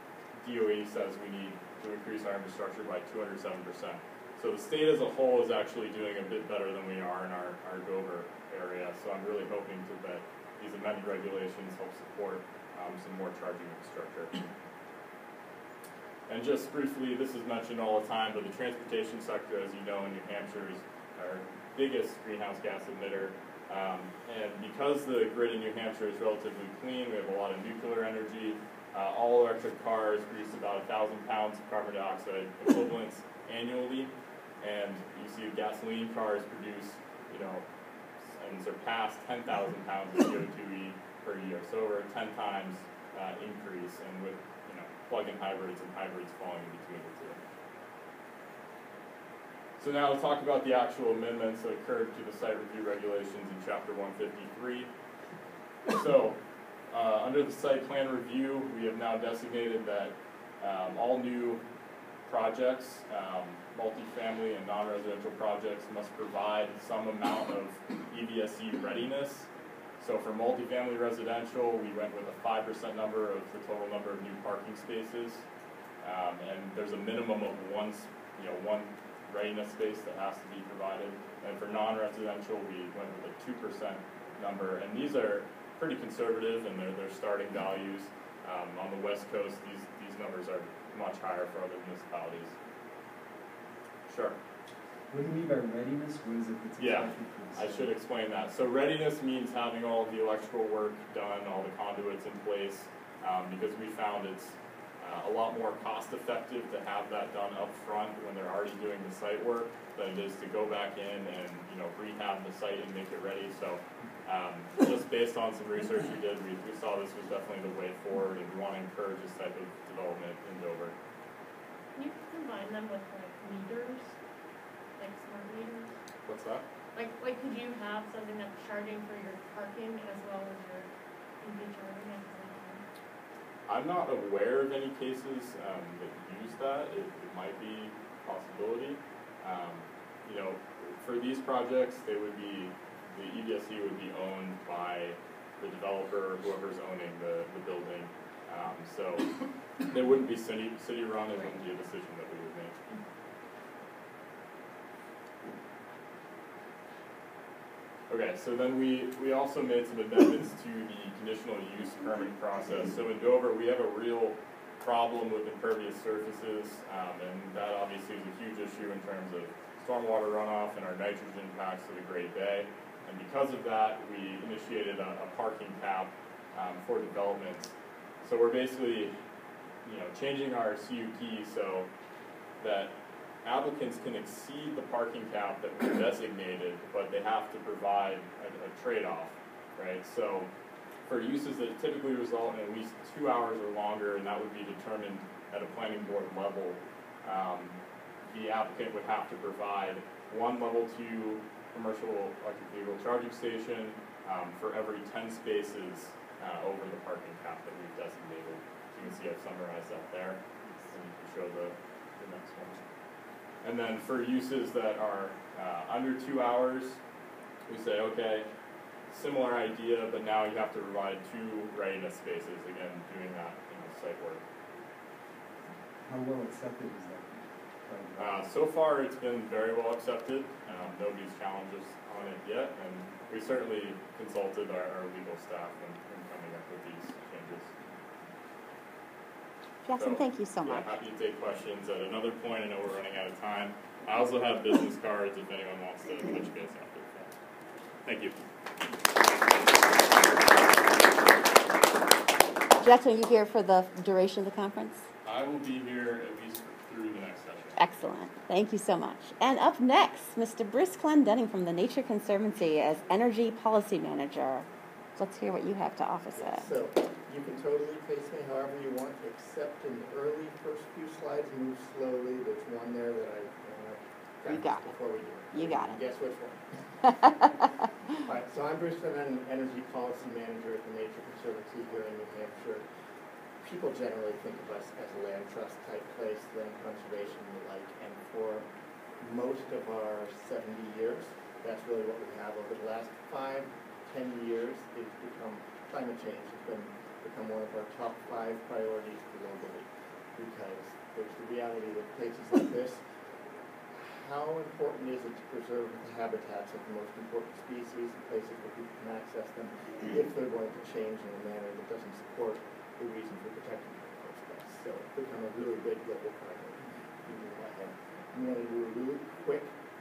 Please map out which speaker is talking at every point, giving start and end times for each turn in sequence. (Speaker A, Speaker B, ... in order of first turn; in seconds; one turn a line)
Speaker A: 0.4-14.4
Speaker A: 16.3-37.6
Speaker A: 38.2-47.4
Speaker A: 49.8-54.9
Speaker A: 55.9-56.4
Speaker A: 56.9-61.6
Speaker A: 62.3-69.5
Speaker A: 70.0-75.5
Speaker A: 76.0-92.5
Speaker A: 94.1-94.4
Speaker B: 95.1-97.9
Speaker A: 96.8-120.9
Speaker C: 122.0-124.2
Speaker C: 125.0-125.9
Speaker A: 126.2-126.7
Speaker C: 127.0-130.9
Speaker C: 131.4-132.8
Speaker A: 133.7-149.3
Speaker A: 149.8-152.8
Speaker A: 158.1-177.7
Speaker A: 178.2-179.2
Speaker A: 179.8-181.9
Speaker A: 182.6-182.9
Speaker A: 183.4-190.5
Speaker A: 191.1-197.8
Speaker A: 198.3-212.8
Speaker A: 213.6-217.0
Speaker A: 217.7-218.5
Speaker A: 219.1-224.4
Speaker B: 226.1-228.4
Speaker A: 228.2-237.7
Speaker D: 239.9-240.9
Speaker A: 240.0-247.3
Speaker A: 248.1-248.4
Speaker D: 252.8-255.0
Speaker A: 255.2-257.8
Speaker D: 257.8-264.7
Speaker D: 265.2-266.7
Speaker E: 266.4-276.6
Speaker D: 274.5-274.9
Speaker D: 275.5-276.0
Speaker D: 277.1-277.5
Speaker E: 278.2-282.9
Speaker E: 283.6-288.6
Speaker E: 289.2-303.0
Speaker E: 303.9-319.7